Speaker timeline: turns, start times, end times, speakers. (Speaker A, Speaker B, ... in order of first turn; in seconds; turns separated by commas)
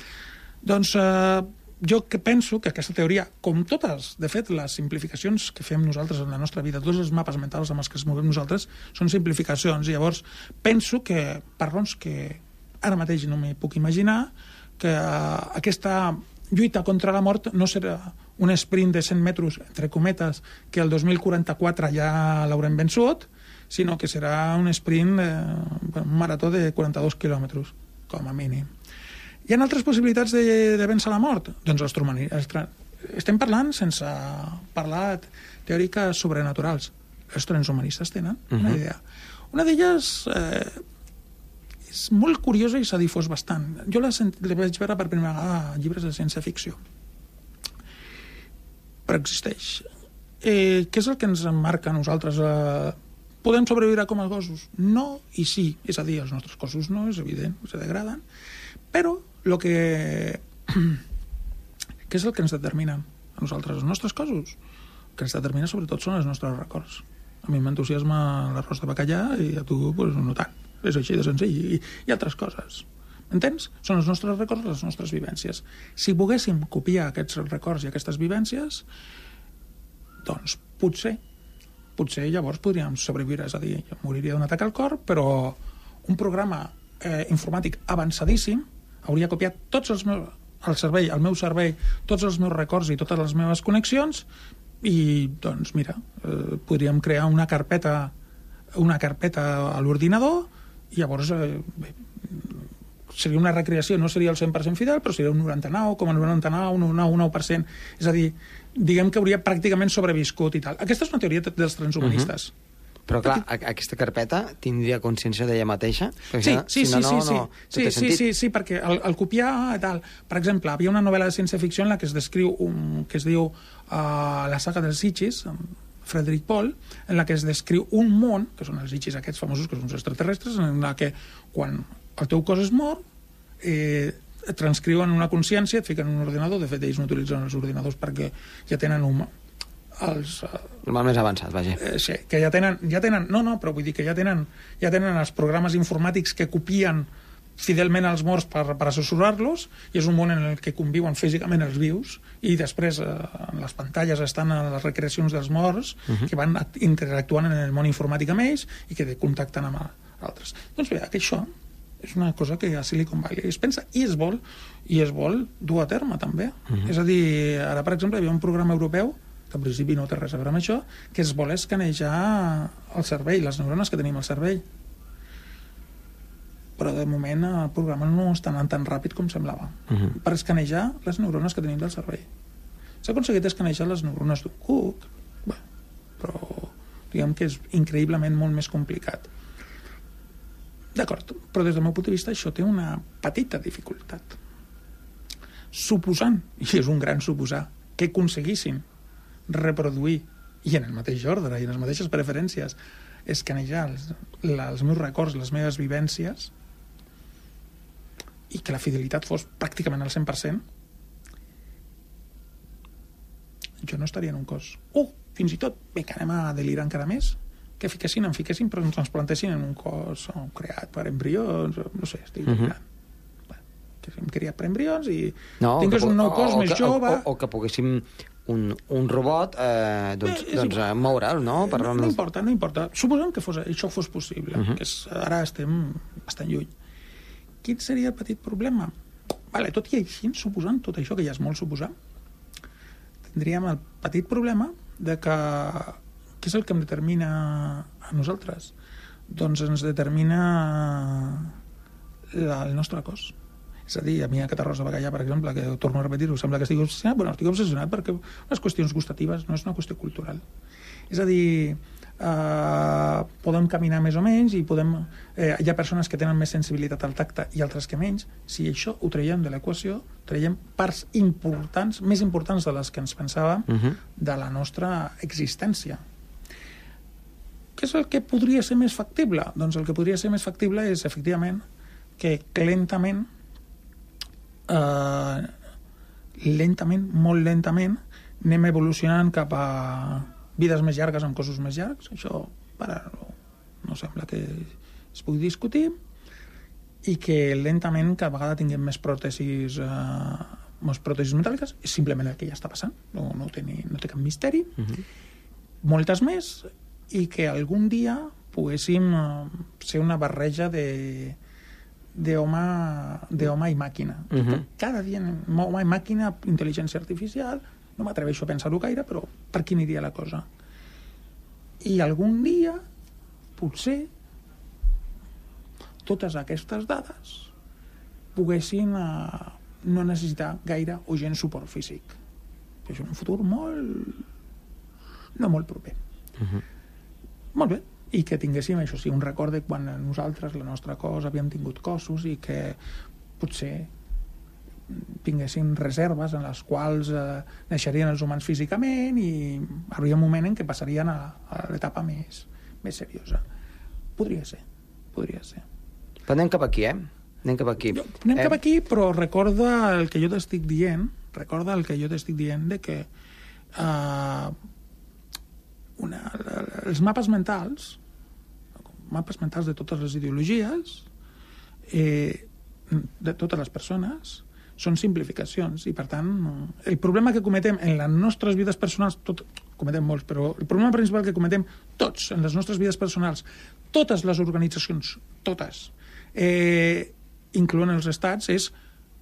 Speaker A: 0.6-28.7, Speaker A: 29.5-39.0, Speaker A: 39.5-40.8, Speaker A: 41.9-46.8, Speaker A: 49.1-49.9, Speaker A: 50.4-58.2, Speaker A: 58.9-61.0, Speaker A: 62.1-64.6, Speaker A: 65.2-78.9, Speaker A: 80.2-81.2, Speaker A: 82.0-94.3, Speaker A: 94.8-98.1, Speaker A: 98.8-112.5, Speaker B: 112.0-112.3, Speaker B: 113.1-118.3, Speaker A: 116.4-133.0, Speaker A: 133.6-139.3, Speaker A: 140.0-140.8, Speaker B: 140.8-141.8, Speaker A: 141.8-161.5, Speaker A: 162.0-174.6, Speaker A: 176.8-182.3, Speaker A: 183.0-185.6, Speaker A: 186.2-189.3, Speaker A: 190.9-194.4, Speaker A: 195.7-198.8, Speaker A: 199.5-206.5, Speaker A: 208.5-210.6, Speaker A: 213.8-222.8, Speaker B: 222.5-222.7, Speaker A: 224.0-227.3, Speaker B: 225.6-232.2, Speaker A: 230.2-230.9, Speaker A: 231.6-236.7, Speaker A: 237.6-238.9, Speaker A: 239.5-241.9, Speaker A: 243.3-248.7, Speaker A: 249.3-251.6, Speaker A: 252.3-253.3, Speaker A: 253.9-260.4, Speaker A: 261.1-276.0, Speaker B: 273.7-274.0, Speaker A: 277.8-281.6, Speaker A: 282.2-283.3, Speaker A: 284.7-285.5, Speaker A: 286.4-295.9, Speaker A: 297.0-304.9, Speaker A: 305.8-311.4, Speaker A: 312.1-320.5, Speaker B: 314.4-314.6, Speaker A: 321.8-322.8, Speaker A: 323.6-324.1, Speaker A: 326.0-327.5, Speaker A: 328.4-332.2, Speaker A: 332.9-334.2, Speaker A: 335.4-336.0, Speaker A: 337.5-342.8, Speaker A: 343.4-343.9, Speaker A: 344.9-353.4, Speaker A: 354.2-355.6, Speaker B: 356.3-358.6, Speaker A: 357.9-363.1, Speaker A: 363.8-364.5, Speaker A: 366.0-368.0, Speaker A: 369.1-371.1, Speaker A: 371.9-388.7